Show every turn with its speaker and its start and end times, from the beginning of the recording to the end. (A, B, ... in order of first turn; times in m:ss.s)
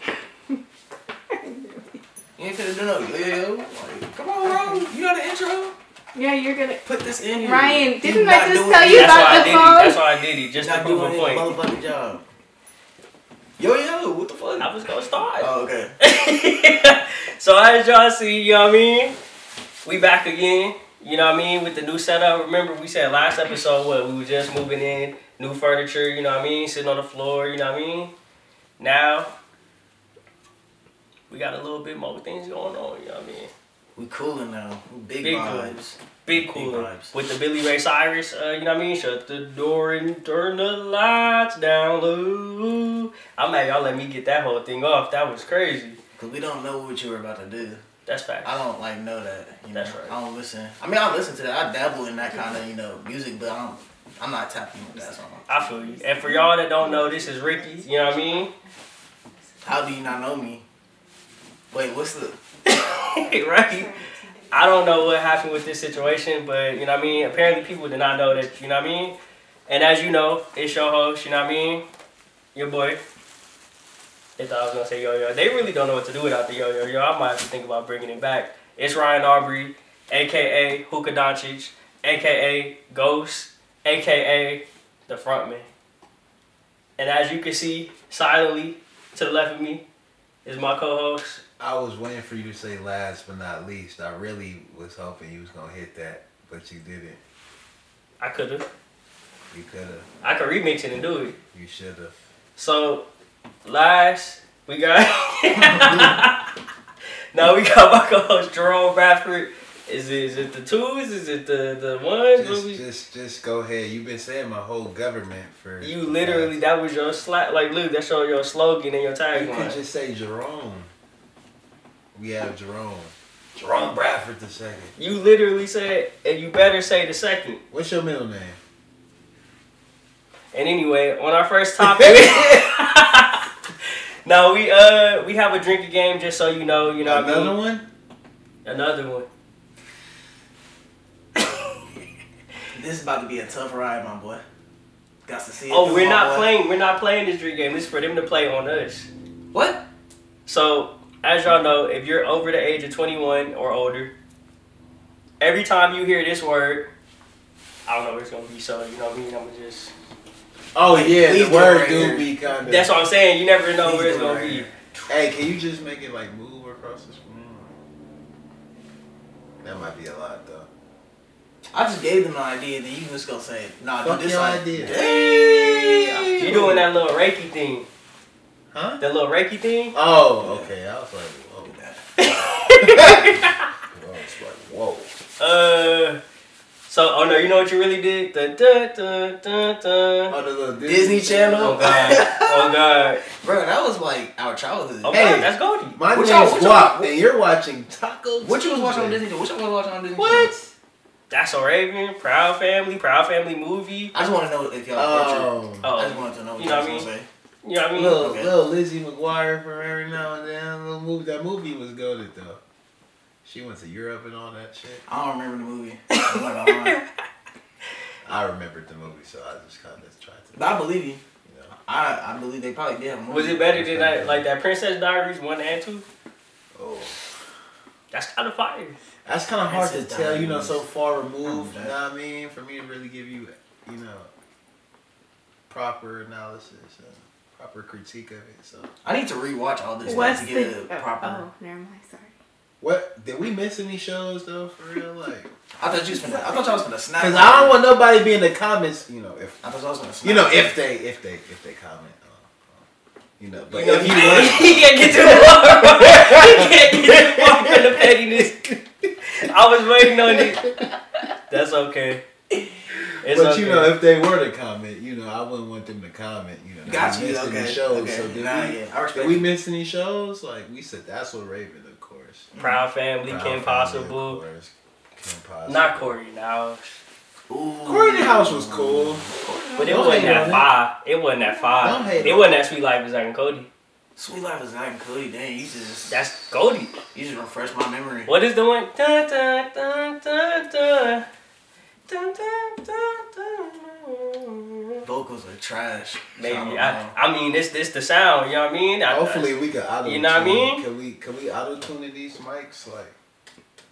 0:01.3-0:02.0 A
0:02.4-0:05.7 B
0:04.4-0:04.8 A
0:06.1-0:06.8 A
0:06.8-0:09.9 B
0:07.4-0:10.0 A
0:08.8-0:11.5 C
0:10.6-0:12.2 B
0:13.6-0:14.7 B
0:14.6-0:19.1 C
0:15.4-0:15.9 B
0:19.8-0:28.1 C
0:28.8-0:29.3 C
0:31.3-0:33.5 C
0:34.0-0:35.8 B
0:35.2-0:46.0 C
0:36.3-0:37.1 B
0:46.2-0:47.8 B
0:48.1-0:48.6 C
0:48.4-0:55.5 B
0:49.7-0:50.1 C
0:55.5-0:58.5 C
0:56.2-0:56.4 A
0:59.6-1:00.6 B
1:01.7-1:02.4 B
1:02.6-1:03.9 C
1:03.9-1:04.2 A
1:04.5-1:09.2 C
1:09.7-1:11.8 C
1:12.5-1:13.0 C
1:14.4-1:25.6 C
1:27.0-1:29.8 C
1:30.4-1:31.4 C
1:31.6-1:37.2 D
1:38.2-1:38.6 C
1:39.5-1:40.1 D
1:40.2-1:41.4 C
1:41.5-1:42.1 D
1:42.6-1:43.0 C
1:43.6-1:46.4 C
1:47.3-1:52.8 C
1:52.4-1:56.6 D
1:55.8-1:59.8 C
1:59.3-2:00.9 D
2:02.1-2:04.9 D
2:05.0-2:07.6 C
2:07.7-2:08.6 D
2:10.5-2:13.4 C
2:11.8-2:12.6 D
2:14.2-2:17.6 C
2:17.0-2:17.8 D
2:18.6-2:19.2 C
2:21.4-2:21.6 C
2:22.7-2:24.4 B
2:25.2-2:26.5 B
2:25.7-2:29.1 C
2:29.5-2:29.8 B
2:30.4-2:34.1 C
2:35.4-2:36.9 C
2:37.8-2:39.9 C
2:40.7-2:42.9 D
2:40.9-2:42.3 B
2:42.6-2:44.7 C
2:43.8-2:45.1 B
2:45.1-2:47.8 D
2:49.6-2:50.7 D
2:51.7-2:56.5 B
2:54.0-2:56.8 D
2:56.4-2:57.9 C
2:58.7-2:59.0 D
2:59.0-2:59.9 C
2:59.9-3:01.7 D
3:00.4-3:00.7 B
3:01.6-3:02.0 B
3:02.2-3:03.6 C
3:02.7-3:05.1 D
3:05.4-3:06.2 C
3:06.9-3:10.3 C
3:10.3-3:12.2 D
3:10.8-3:12.8 B
3:11.6-3:13.2 C
3:13.3-3:15.2 B
3:15.0-3:16.0 C
3:15.1-3:19.2 D
3:16.1-3:17.1 B
3:18.4-3:20.5 B
3:20.2-3:20.7 D
3:21.3-3:24.1 C
3:24.1-3:27.2 B
3:25.0-3:25.9 D
3:25.8-3:27.1 C
3:27.6-3:28.2 C
3:27.9-3:32.6 D
3:28.2-3:28.5 B
3:33.4-3:35.0 D
3:35.1-3:37.0 B
3:36.1-3:37.0 C
3:38.2-3:40.7 D
3:40.5-3:41.2 B
3:41.4-3:41.7 D
3:41.8-3:43.7 B
3:43.3-3:46.0 C
3:43.7-3:44.4 D
3:46.7-3:47.2 D
3:48.1-3:49.0 C
3:49.2-3:54.3 D
3:49.6-3:50.8 B
3:51.4-3:51.9 B
3:55.7-3:58.9 D
3:59.0-4:01.4 B
4:00.0-4:02.3 A
4:02.8-4:05.5 D
4:05.8-4:07.8 B
4:07.2-4:09.6 D
4:09.6-4:10.7 B
4:10.2-4:12.8 D
4:13.4-4:18.4 D
4:13.7-4:18.8 C
4:13.8-4:14.6 B
4:19.3-4:20.7 C
4:20.1-4:20.9 D
4:21.5-4:22.2 C
4:23.2-4:23.9 C
4:23.2-4:32.5 D
4:26.8-4:29.4 B
4:32.5-4:32.8 B
4:32.6-4:34.4 C
4:33.2-4:36.2 D
4:35.7-4:37.0 C
4:37.5-4:40.6 B
4:37.8-4:39.3 D
4:39.8-4:43.7 C
4:39.8-4:40.7 D
4:41.5-4:42.2 B
4:41.8-4:42.6 D
4:44.2-4:46.1 B
4:46.1-4:46.9 C
4:47.1-4:48.3 B
4:48.2-4:51.2 C
4:52.1-4:55.0 C
4:55.0-4:57.1 B
4:56.4-4:59.5 C
4:59.1-5:03.2 D
5:00.0-5:00.8 C